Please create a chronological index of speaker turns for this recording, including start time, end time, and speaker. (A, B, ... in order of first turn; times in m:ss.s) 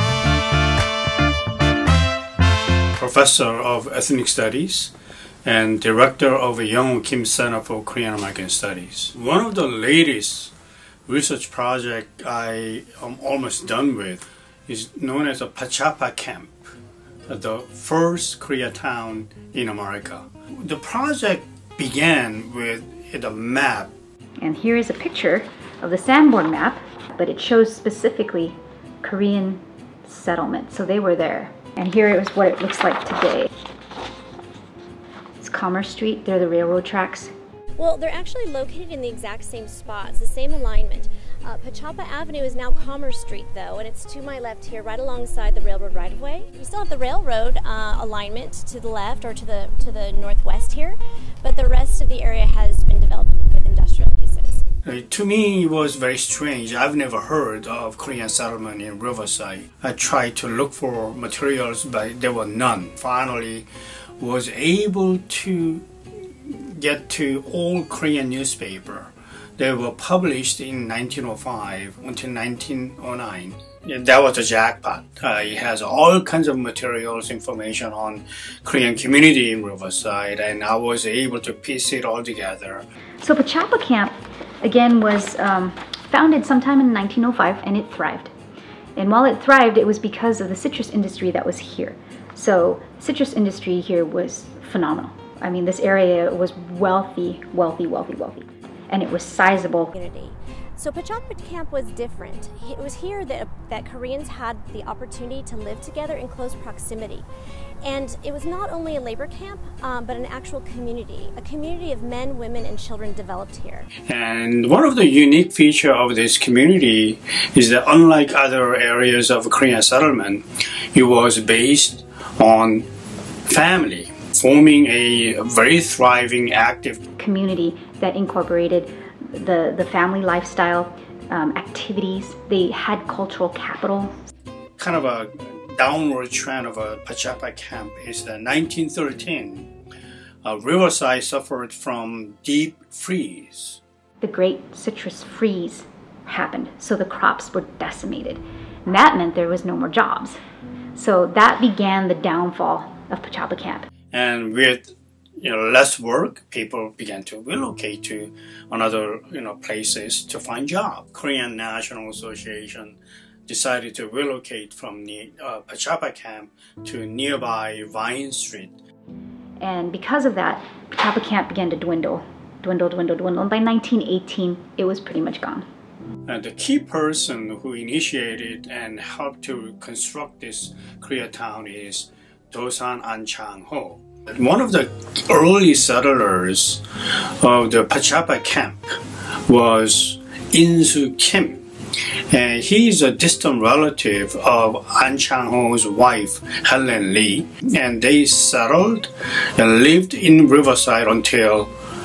0:03.0-0:04.9 A
0:05.4-0:10.5 A
0:11.1-0:16.7 A
0:17.3-0:23.9 A
0:24.4-0:33.5 B
0:35.4-0:37.3 B
0:37.8-0:54.6 C
0:54.8-1:03.7 A
1:04.2-1:05.8 A
1:06.4-1:22.9 A
1:23.2-1:28.3 B
1:29.0-1:39.9 B
1:39.9-1:47.2 C
1:47.8-1:53.9 C
1:54.1-2:02.9 A
2:03.5-2:07.0 A
2:07.2-2:14.1 B
2:14.8-2:19.7 A
2:20.4-2:23.8 A
2:24.2-2:30.4 B
2:31.0-2:33.9 B
2:34.1-2:48.7 A
2:49.6-2:55.6 B
2:56.3-3:06.8 A
3:07.4-3:11.6 A
3:12.3-3:21.7 A